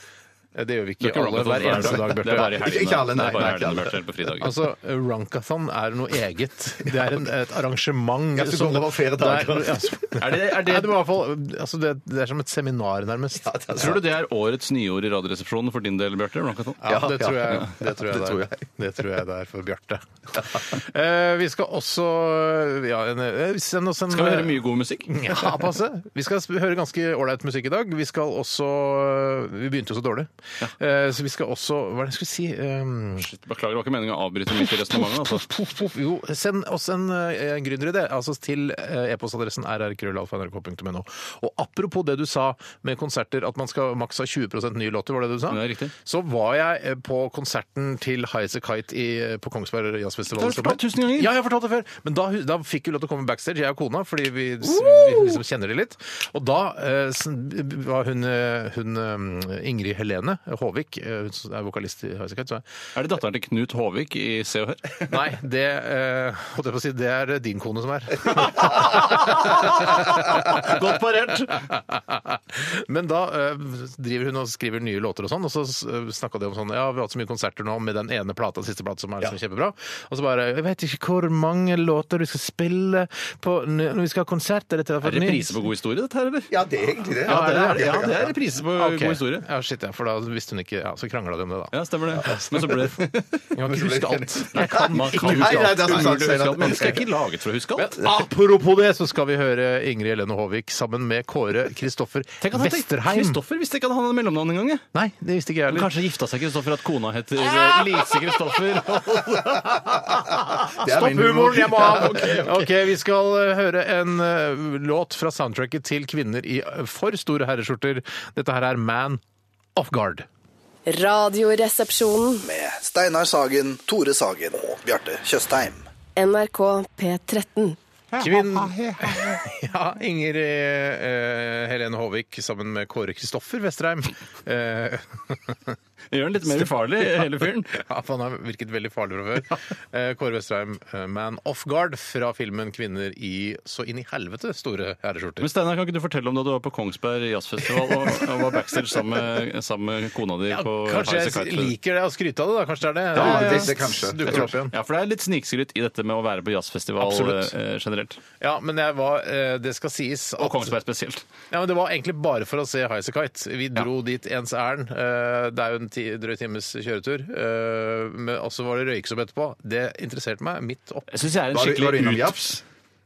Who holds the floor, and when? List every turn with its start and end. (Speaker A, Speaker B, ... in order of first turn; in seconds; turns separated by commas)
Speaker A: 0.5-2.8, Speaker B: 1.0-4.5, Speaker C: 1.7-4.0, Speaker A: 4.4-14.0, Speaker C: 8.3-10.1, Speaker B: 10.2-10.9, Speaker C: 13.4-14.0, Speaker B: 13.7-16.8, Speaker A: 16.8-33.3, Speaker C: 16.9-18.6, Speaker B: 24.1-25.5, Speaker B: 33.2-35.5, Speaker A: 34.5-62.6, Speaker B: 45.5-45.9, Speaker B: 50.3-51.3, Speaker B: 62.9-65.0, Speaker A: 65.1-85.6, Speaker B: 68.6-71.6, Speaker B: 85.0-86.5, Speaker C: 86.5-88.3, Speaker A: 87.2-92.5, Speaker B: 87.2-89.5, Speaker B: 91.7-93.5, Speaker A: 93.5-96.9, Speaker C: 93.6-97.0, Speaker B: 94.5-98.0, Speaker A: 97.8-103.4, Speaker B: 102.4-104.8, Speaker A: 104.9-105.9, Speaker B: 105.7-109.9, Speaker A: 107.4-119.2, Speaker C: 110.6-112.5, Speaker A: 119.7-120.3, Speaker D: 120.9-122.4, Speaker E: 122.4-125.8, Speaker D: 126.2-127.8, Speaker A: 128.2-135.8, Speaker B: 136.1-137.8, Speaker A: 136.5-145.5, Speaker B: 145.4-151.7, Speaker A: 150.5-154.7, Speaker C: 153.1-154.5, Speaker B: 153.2-153.7, Speaker B: 154.2-158.2, Speaker A: 157.0-157.5, Speaker A: 158.4-160.7, Speaker B: 160.4-161.2, Speaker A: 161.5-171.1, Speaker B: 171.1-172.4, Speaker C: 171.5-172.6